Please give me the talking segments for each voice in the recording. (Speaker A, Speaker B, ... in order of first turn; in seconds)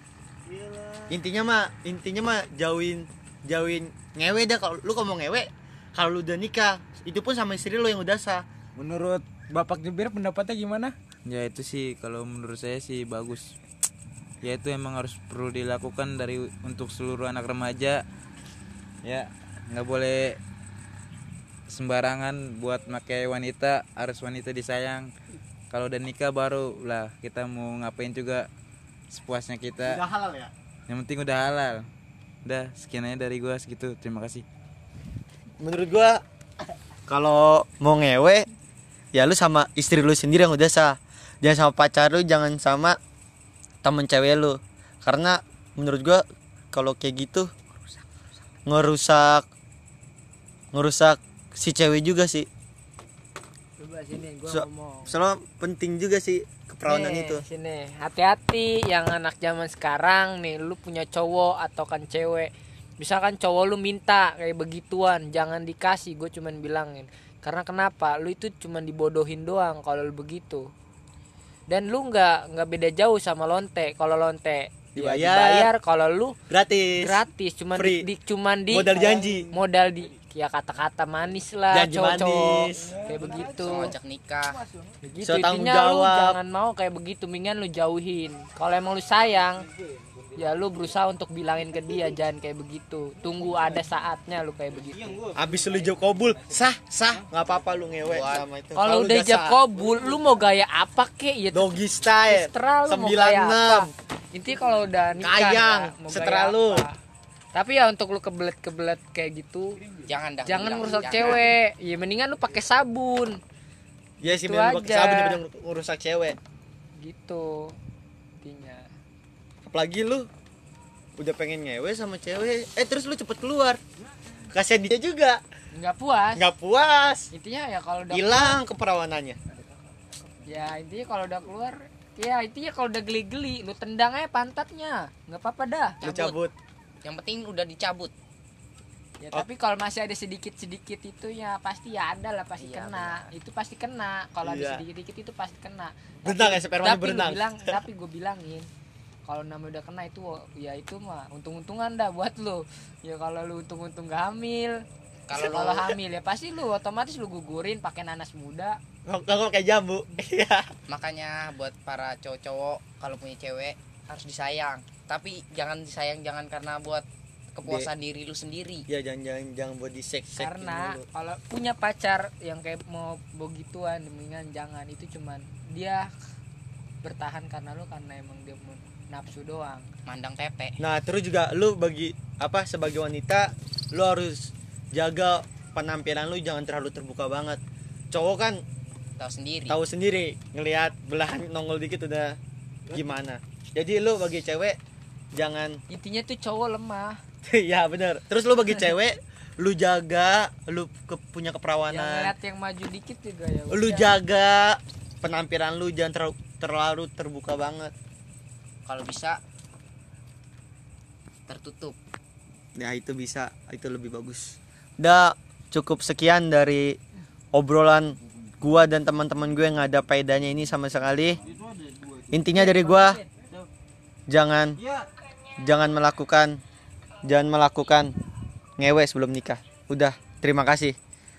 Speaker A: 0.5-1.2, 8.8-10.9, 78.7-79.5, 82.8-83.9, 84.5-85.0, 89.7-90.9, 91.7-92.2, 93.3-93.9, 94.8-98.3, 99.7-100.3, 109.8-110.1, 221.4-222.4, 223.3-223.7, 224.8-225.1
Speaker B: 1.1-8.4, 29.8-30.5, 35.6-36.2, 37.1-38.5, 39.1-43.0, 43.8-47.5, 48.6-49.5, 50.7-52.5, 54.5-57.4, 75.0-75.7, 76.5-77.2, 77.7-78.0, 78.7-79.5, 81.7-83.0, 85.2-86.4, 95.4-99.6, 101.5-103.9, 105.2-106.9, 114.2-116.4, 119.7-120.3, 121.2-123.8, 124.4-125.4, 126.3-127.3, 128.1-129.4, 136.0-136.5, 144.4-144.8, 146.2-147.8, 159.1-160.7, 167.6-167.9, 168.9-171.1, 180.8-187.6, 188.1-188.6, 189.7-192.4, 192.9-194.8, 195.3-195.8, 197.4-202.3, 203.7-207.9, 212.8-217.0, 217.5-221.4, 222.3-223.2, 224.3-224.8, 225.6-226.6, 227.2-228.1, 228.8-230.9
Speaker C: 11.2-13.5, 14.4-18.0, 19.0-20.4, 21.7-25.1, 25.7-28.5, 29.1-30.0, 30.9-31.9, 32.4-34.4
Speaker D: 53.8-55.2, 56.9-70.7, 71.7-76.3, 77.0-83.9, 85.0-89.7, 90.3-95.2, 98.8-107.0, 107.5-109.8, 110.4-113.4, 114.2-115.4, 117.0-117.8, 118.4-118.9, 125.7-126.4, 127.3-128.6, 130.4-136.0, 139.2-148.7, 149.2-154.8, 155.3-158.8, 170.3-176.1, 177.0-179.9, 195.9-197.2, 201.9-204.1, 222.5-223.3
Speaker E: 83.5-84.6, 98.1-98.5, 110.1-111.4, 136.0-136.4, 137.0-138.1, 142.6-143.3, 155.3-155.9, 160.9-168.8, 180.1-180.8, 189.2-189.8, 208.8-209.4, 211.5-212.0